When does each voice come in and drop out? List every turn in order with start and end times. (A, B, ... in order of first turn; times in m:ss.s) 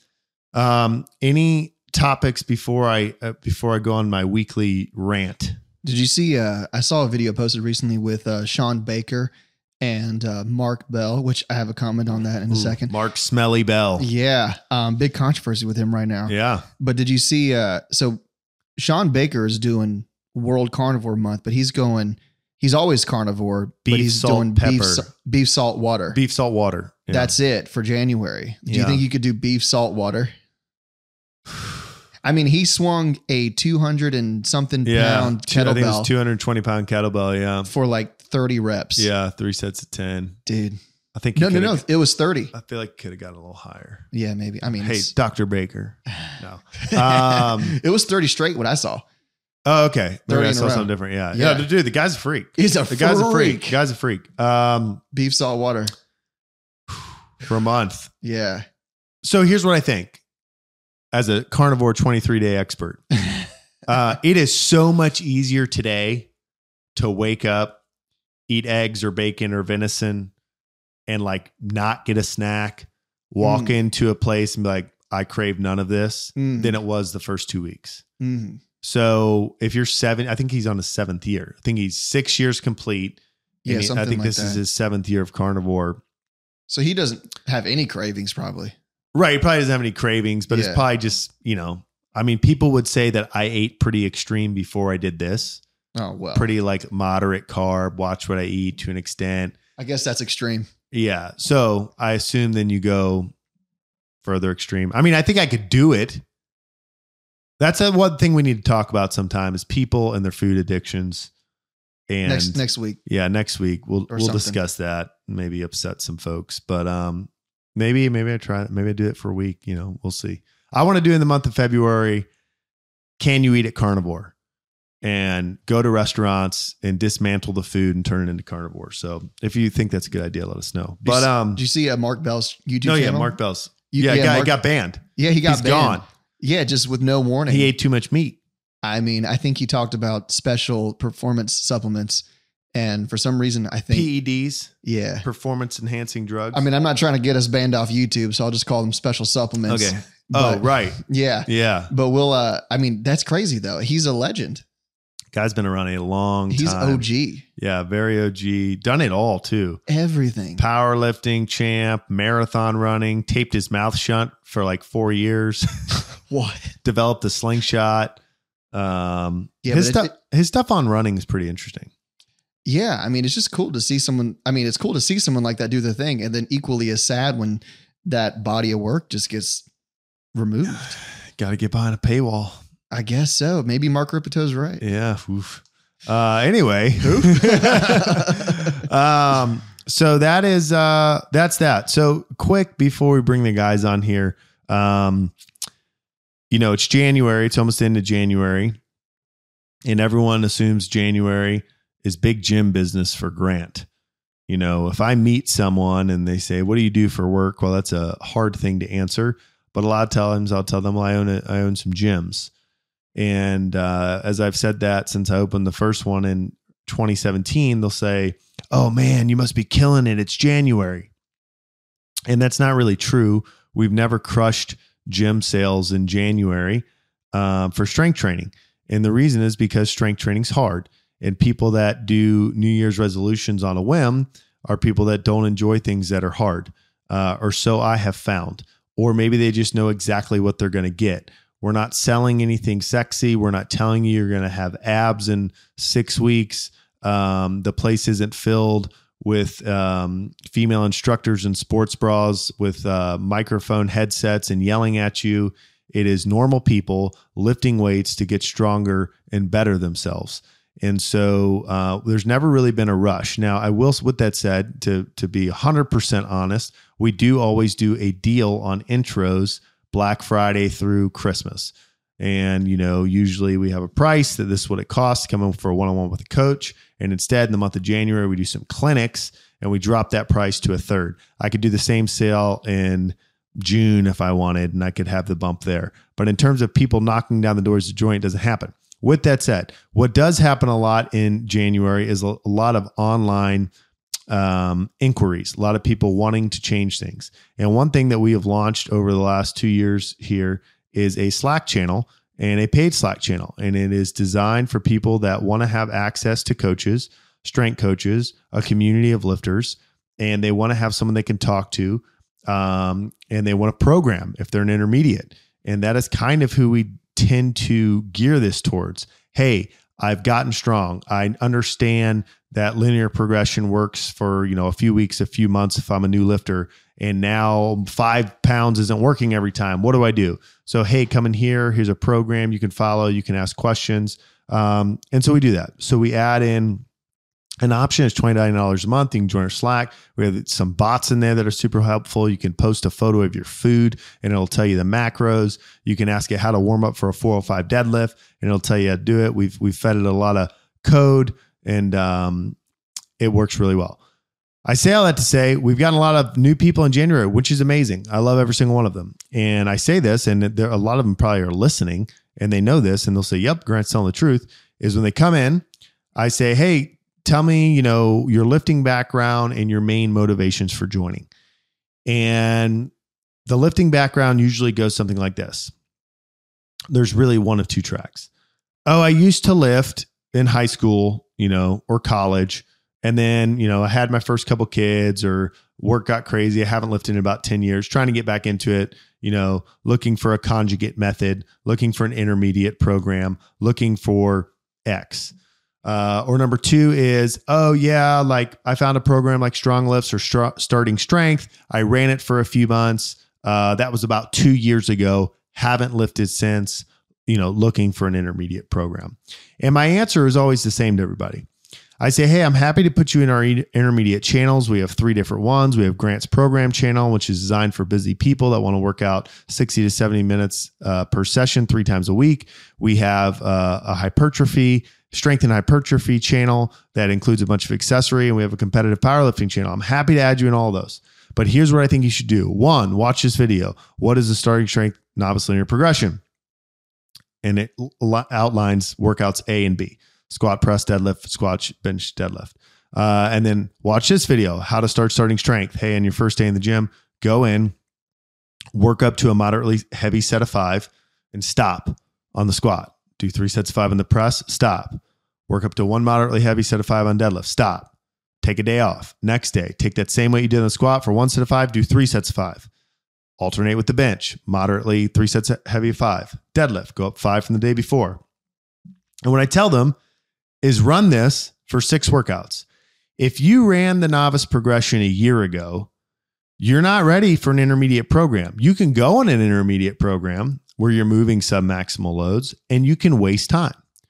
0:00.5-0:05.6 A
0:05.8-0:12.9 B
0:12.5-0:14.1 A
0:14.0-0:18.2 B
0:16.3-0:16.7 A
0:18.8-0:26.2 B
0:23.8-0:25.1 A
0:26.1-0:27.3 A
0:27.1-0:30.3 B
0:28.6-0:29.0 A
0:32.2-0:36.1 B
0:34.8-0:37.7 A
0:37.6-0:39.1 B
0:39.0-0:40.4 A
0:40.4-0:40.8 B
0:41.1-0:41.8 A
0:41.3-0:42.5 B
0:42.5-0:44.0 A
0:44.1-0:45.1 B
0:44.8-0:47.8 A
0:46.8-0:49.0 B
0:49.6-0:55.0 A
0:50.3-0:51.7 B
0:52.6-0:53.8 B
0:55.1-0:55.9 B
0:57.4-0:58.1 A
0:58.2-0:58.6 B
0:59.2-1:00.2 A
1:01.1-1:03.1 A
1:03.9-1:06.3 A
1:06.9-1:07.8 A
1:08.5-1:10.3 A
1:11.1-1:18.0 A
1:13.4-1:13.7 B
1:16.4-1:16.8 B
1:18.2-1:18.6 B
1:18.8-1:26.0 A
1:23.6-1:24.6 B
1:26.7-1:28.7 B
1:29.1-1:35.6 A
1:30.5-1:30.8 B
1:35.9-1:36.5 B
1:36.3-1:39.6 A
1:39.8-1:40.7 B
1:40.9-1:43.3 A
1:44.2-1:46.2 A
1:47.6-1:51.3 A
1:52.1-2:02.3 A
1:52.2-1:53.0 B
1:54.1-1:54.6 B
2:03.2-2:04.3 A
2:05.0-2:11.6 A
2:11.0-2:13.3 B
2:12.8-2:16.0 A
2:13.9-2:14.5 B
2:15.2-2:17.7 B
2:17.5-2:18.4 A
2:18.8-2:24.1 B
2:23.9-2:26.6 A
2:24.8-2:25.2 B
2:26.5-2:34.6 B
2:29.7-2:31.9 A
2:35.3-2:37.0 A
2:36.5-2:37.4 B
2:37.6-2:39.8 A
2:39.9-2:40.6 B
2:40.6-2:46.0 A
2:46.3-2:46.7 B
2:46.8-2:48.2 A
2:48.7-2:51.9 A
2:49.6-2:50.1 B
2:52.6-2:59.6 B
3:00.3-3:01.0 B
3:01.3-3:02.6 A
3:02.9-3:04.8 B
3:04.8-3:15.3 A
3:07.0-3:08.8 B
3:16.5-3:18.8 A
3:19.8-3:23.9 A
3:24.5-3:32.5 A
3:33.1-3:41.1 A
3:42.3-4:53.7 A
4:54.3-5:36.8 A
5:37.6-5:52.6 A
5:53.2-5:54.0 A
5:54.6-6:05.6 A
6:06.2-6:11.3 A
6:12.1-6:12.9 A
6:13.4-6:15.7 A
6:16.9-6:18.3 A
6:18.8-6:51.4 A
6:52.0-7:16.2 A
7:17.4-7:27.7 A
7:28.7-7:37.9 A
7:38.4-7:42.7 A
7:43.4-7:48.2 A
7:49.2-7:50.0 A
7:50.6-7:52.6 A
7:53.2-7:55.9 A
7:56.6-8:03.8 A